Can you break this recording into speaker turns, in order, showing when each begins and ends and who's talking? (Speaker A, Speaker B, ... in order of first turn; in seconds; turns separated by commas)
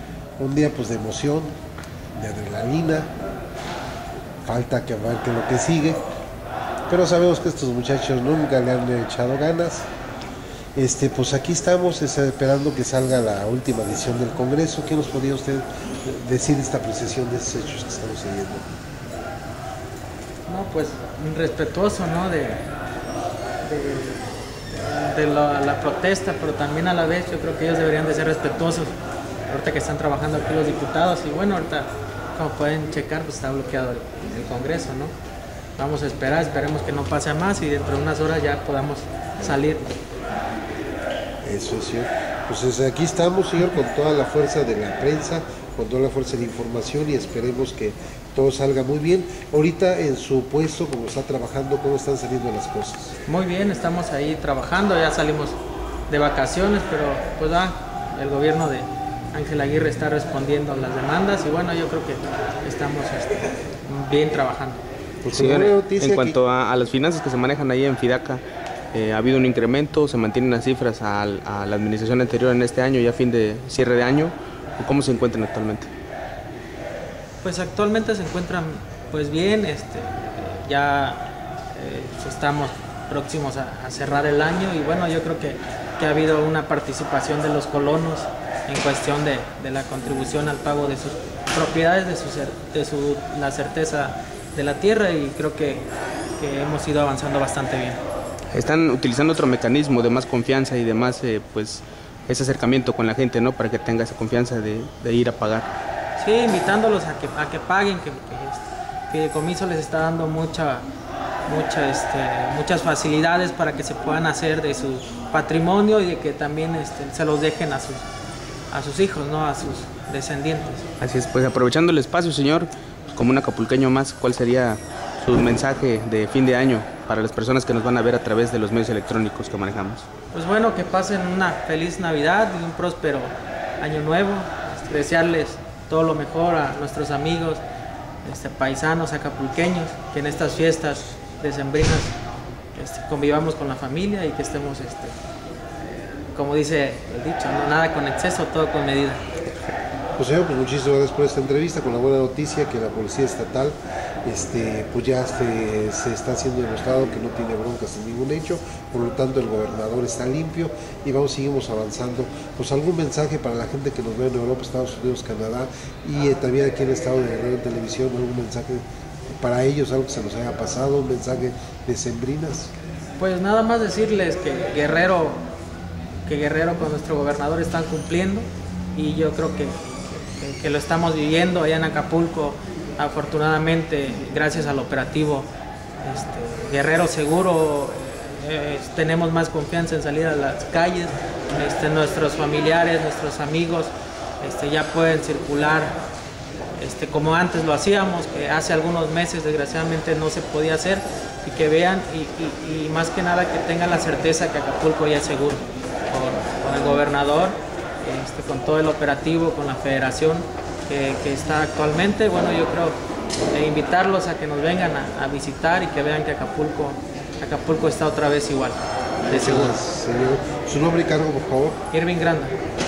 Speaker A: 0.4-1.6, Speaker A: 2.1-3.1, Speaker A: 4.4-6.0, Speaker A: 6.9-9.9, Speaker A: 10.8-18.6, Speaker B: 20.5-22.6, Speaker B: 23.6-28.9, Speaker B: 29.5-35.1, Speaker B: 35.8-39.9, Speaker A: 41.4-53.1, Speaker B: 53.2-55.6, Speaker B: 56.1-64.8, Speaker A: 65.2-66.3, Speaker C: 65.3-68.4, Speaker C: 68.9-75.9, Speaker B: 77.4-95.9, Speaker B: 96.4-98.0, Speaker C: 98.5-105.7, Speaker B: 106.2-110.9, Speaker B: 111.5-118.0, Speaker B: 118.7-120.9, Speaker C: 121.0-130.1, Speaker B: 130.3-137.6, Speaker B: 138.2-142.1, Speaker B: 142.7-145.1, Speaker B: 146.3-149.3, Speaker A: 150.2-172.7, Speaker B: 173.2-175.4, Speaker B: 176.2-185.5, Speaker B: 186.0-195.9, Speaker B: 196.8-213.0, Speaker B: 213.5-219.8, Speaker A: 219.3-221.8, Speaker B: 221.9-222.6